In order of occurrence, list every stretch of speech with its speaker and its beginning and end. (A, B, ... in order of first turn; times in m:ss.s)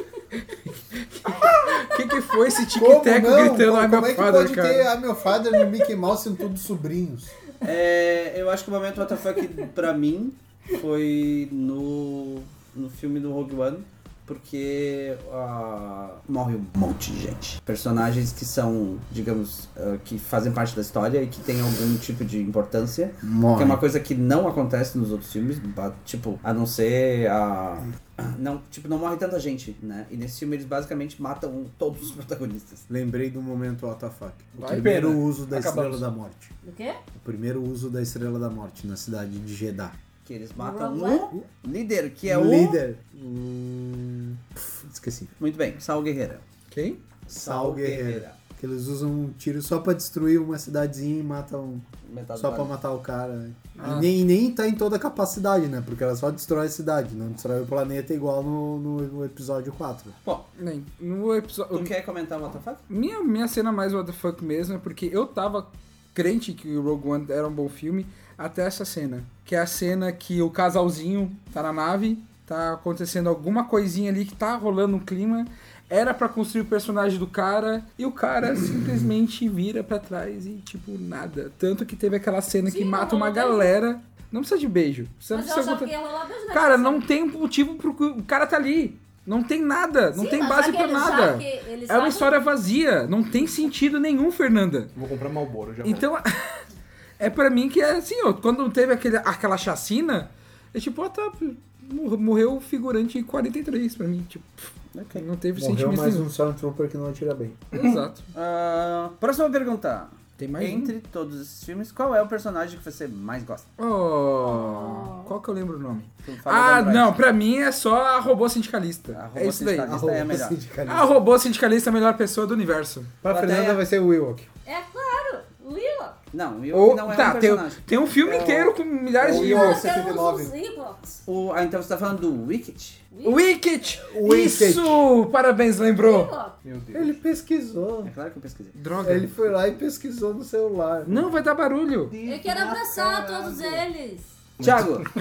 0:00.5-0:04.9 A
0:02.7-0:07.3 B
0:07.6-0:32.8 C
0:23.2-0:23.8 B
0:32.9-0:36.5 B
0:34.6-0:35.0 A
0:34.7-0:36.0 D
0:36.6-0:37.0 E
0:37.2-0:40.0 B
0:40.2-0:42.8 C
0:40.6-0:41.3 E
0:42.2-0:45.3 B
0:45.4-0:46.4 C
0:46.7-0:47.0 A
0:47.3-0:48.4 C
0:47.3-1:00.2 B
0:52.0-0:52.7 C
0:53.8-0:54.1 A
1:00.6-1:01.9 A
1:01.7-1:02.8 C
1:02.9-1:25.9 A
1:22.6-1:23.7 E
1:25.3-1:27.0 E
1:26.5-1:34.9 A
1:30.1-1:32.3 E
1:34.9-1:36.0 D
1:35.8-1:36.6 A
1:37.2-1:46.3 A
1:44.9-1:45.2 C
1:45.6-1:47.6 B
1:47.7-1:48.3 A
1:47.7-1:48.1 D
1:48.3-1:53.7 C
1:50.4-1:50.9 A
1:53.8-2:00.0 A
1:54.4-1:55.3 E
1:56.2-1:57.2 C
1:59.1-2:00.6 C
1:59.9-2:01.1 B
2:00.9-2:03.2 A
2:03.2-2:04.5 B
2:03.3-2:03.8 C
2:04.6-2:06.2 E
2:06.3-2:07.8 C
2:06.7-2:09.8 A
2:08.2-2:10.5 B
2:09.2-2:11.2 E
2:11.3-2:13.0 C
2:13.1-2:13.4 E
2:13.2-2:16.3 A
2:14.0-2:15.0 B
2:16.0-2:16.6 E
2:16.6-2:17.1 D
2:16.9-2:18.1 B
2:18.0-2:18.8 C
2:18.7-2:19.3 A
2:19.0-2:21.3 B
2:21.0-2:22.2 A
2:22.1-2:23.9 D
2:22.2-2:24.3 E
2:24.6-2:25.1 C
2:24.6-2:25.1 D